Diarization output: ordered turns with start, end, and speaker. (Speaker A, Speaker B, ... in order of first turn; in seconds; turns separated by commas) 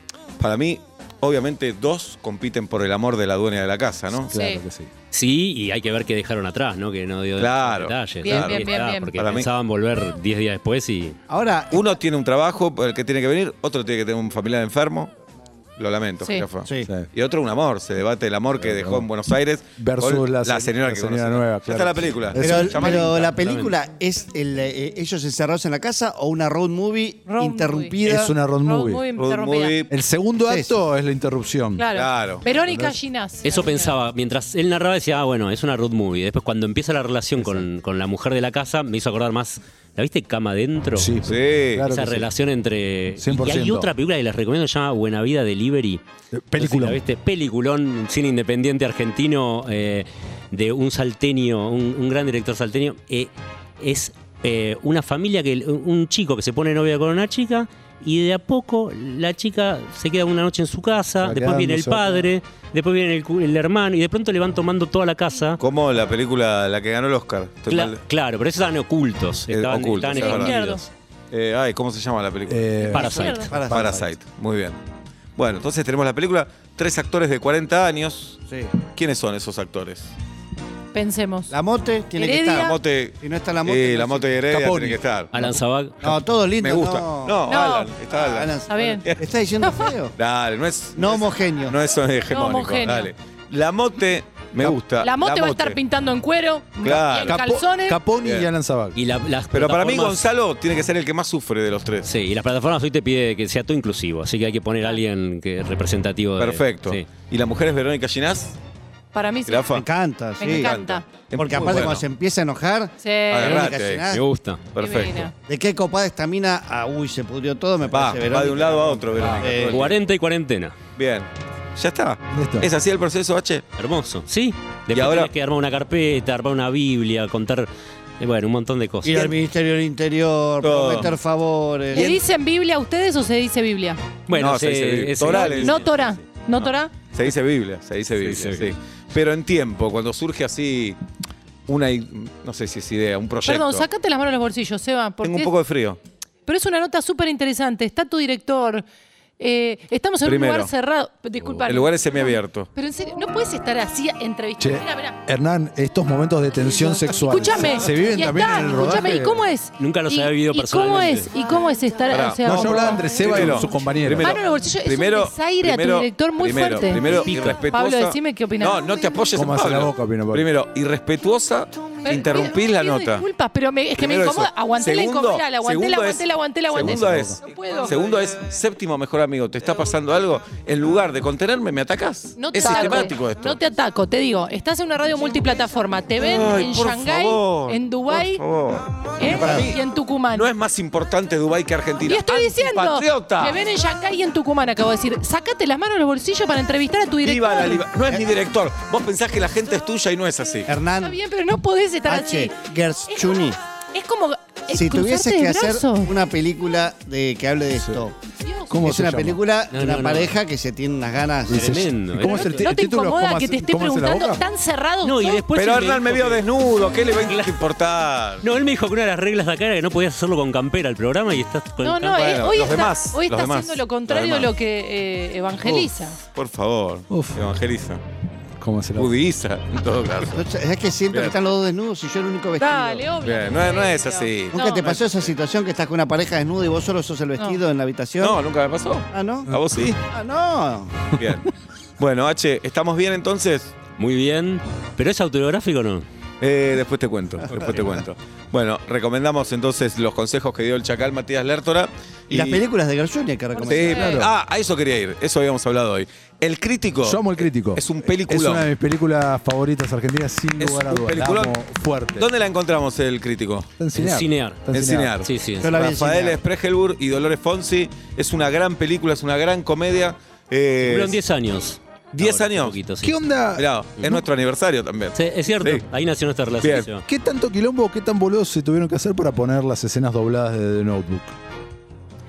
Speaker A: 0.4-4.4, Speaker B: 4.3-4.9, Speaker C: 4.3-4.6, Speaker D: 5.1-11.2, Speaker A: 7.4-9.5, Speaker C: 8.2-9.2, Speaker E: 11.3-11.9, Speaker A: 11.7-15.1, Speaker A: 15.8-23.7, Speaker C: 16.2-16.5, Speaker E: 16.6-16.9, Speaker B: 16.8-17.1, Speaker B: 18.6-19.1, Speaker B: 19.8-23.1, Speaker E: 22.4-28.4, Speaker C: 27.3-29.8, Speaker B: 28.0-29.1, Speaker A: 29.2-29.9, Speaker B: 29.9-31.9, Speaker E: 30.4-30.7, Speaker C: 31.8-34.0, Speaker A: 31.9-32.5, Speaker B: 32.5-33.0, Speaker D: 33.4-41.2, Speaker B: 37.4-37.6, Speaker B: 41.0-42.3, Speaker A: 41.2-41.9, Speaker D: 41.9-46.0, Speaker B: 43.2-43.9, Speaker B: 46.3-47.0, Speaker D: 46.6-65.6, Speaker B: 61.2-62.3, Speaker A: 65.6-68.0, Speaker D: 67.7-70.9, Speaker A: 69.5-70.6, Speaker C: 70.1-70.8, Speaker A: 71.3-72.9, Speaker B: 72.5-74.1, Speaker E: 72.9-74.0, Speaker D: 72.9-73.5, Speaker C: 73.0-73.5, Speaker A: 73.6-74.8, Speaker A: 75.4-80.1, Speaker E: 78.5-78.8, Speaker C: 80.9-81.6, Speaker E: 81.5-84.3, Speaker C: 82.2-82.8, Speaker A: 82.6-85.3, Speaker B: 84.5-85.0, Speaker D: 85.3-86.2, Speaker E: 86.0-87.5, Speaker A: 86.6-89.2, Speaker C: 87.5-87.9, Speaker E: 88.1-90.2, Speaker C: 88.6-89.0, Speaker C: 89.6-89.9, Speaker A: 90.2-95.8, Speaker E: 91.0-91.8, Speaker C: 92.2-93.1, Speaker C: 94.9-98.1, Speaker A: 96.8-97.5, Speaker B: 97.3-99.0, Speaker A: 98.2-98.5, Speaker D: 99.0-100.3, Speaker A: 99.5-102.1, Speaker D: 102.0-107.1, Speaker A: 106.4-108.6, Speaker C: 109.1-109.8, Speaker A: 109.5-109.9, Speaker E: 109.7-110.8, Speaker C: 110.4-111.2, Speaker A: 110.5-112.0, Speaker E: 111.3-114.2, Speaker C: 113.0-113.5, Speaker A: 113.3-114.0, Speaker D: 114.1-114.7, Speaker A: 114.7-115.3, Speaker C: 114.8-115.3, Speaker E: 115.5-119.8, Speaker A: 117.9-119.9, Speaker D: 119.6-120.8, Speaker A: 121.0-123.7, Speaker B: 122.3-122.7, Speaker D: 123.8-129.3, Speaker A: 124.9-125.3, Speaker E: 129.0-132.2, Speaker A: 130.6-131.1, Speaker C: 131.9-134.0, Speaker D: 134.3-135.9, Speaker A: 134.3-135.9, Speaker C: 135.2-136.9, Speaker A: 136.5-141.0, Speaker D: 138.2-138.8, Speaker A: 141.7-143.9, Speaker C: 143.4-145.6, Speaker A: 145.2-146.0, Speaker C: 146.5-148.9, Speaker C: 149.4-155.2, Speaker A: 150.2-150.7, Speaker A: 151.7-152.7, Speaker B: 154.6-159.4, Speaker C: 157.1-168.9, Speaker D: 159.8-161.3, Speaker A: 162.1-173.3, Speaker B: 162.4-164.3, Speaker D: 167.0-167.6, Speaker B: 169.3-170.5, Speaker C: 172.0-178.0, Speaker A: 174.0-183.6, Speaker B: 176.8-177.4, Speaker C: 182.4-188.4, Speaker A: 186.2-193.6, Speaker C: 189.2-190.5, Speaker E: 189.3-189.7, Speaker C: 192.0-197.9, Speaker A: 197.2-200.7, Speaker E: 200.7-201.2, Speaker C: 201.0-206.1, Speaker E: 202.1-203.6, Speaker E: 204.7-208.2, Speaker B: 207.8-208.1, Speaker C: 208.4-208.8, Speaker B: 208.7-209.4, Speaker E: 208.8-211.8, Speaker D: 209.7-210.4, Speaker B: 211.5-214.4, Speaker D: 211.5-212.7, Speaker C: 212.2-215.5, Speaker D: 215.0-216.5, Speaker A: 215.5-218.5, Speaker D: 217.2-217.6, Speaker D: 218.4-222.3, Speaker C: 221.8-226.2, Speaker A: 222.1-224.5, Speaker A: 225.6-228.0, Speaker B: 227.1-227.4, Speaker B: 228.6-229.1, Speaker A: 229.0-230.4, Speaker E: 230.3-233.1, Speaker C: 232.6-234.9, Speaker A: 233.2-235.3, Speaker E: 234.5-238.4, Speaker A: 238.2-240.0, Speaker E: 239.1-241.1, Speaker A: 241.1-241.5, Speaker A: 242.0-243.8, Speaker D: 244.0-246.1, Speaker A: 246.4-252.6, Speaker D: 247.5-247.9, Speaker E: 252.3-254.2, Speaker C: 253.6-254.2, Speaker A: 253.7-258.6, Speaker B: 253.9-254.3, Speaker B: 257.0-262.3, Speaker A: 260.6-261.6, Speaker A: 262.2-263.7, Speaker B: 263.8-265.3, Speaker D: 263.9-264.6, Speaker A: 264.7-271.2, Speaker D: 265.2-265.8, Speaker E: 265.6-266.4, Speaker D: 270.8-273.2, Speaker A: 272.2-272.8, Speaker B: 273.0-274.2, Speaker A: 273.6-275.8, Speaker D: 275.1-277.1, Speaker A: 276.6-276.9, Speaker B: 277.1-281.3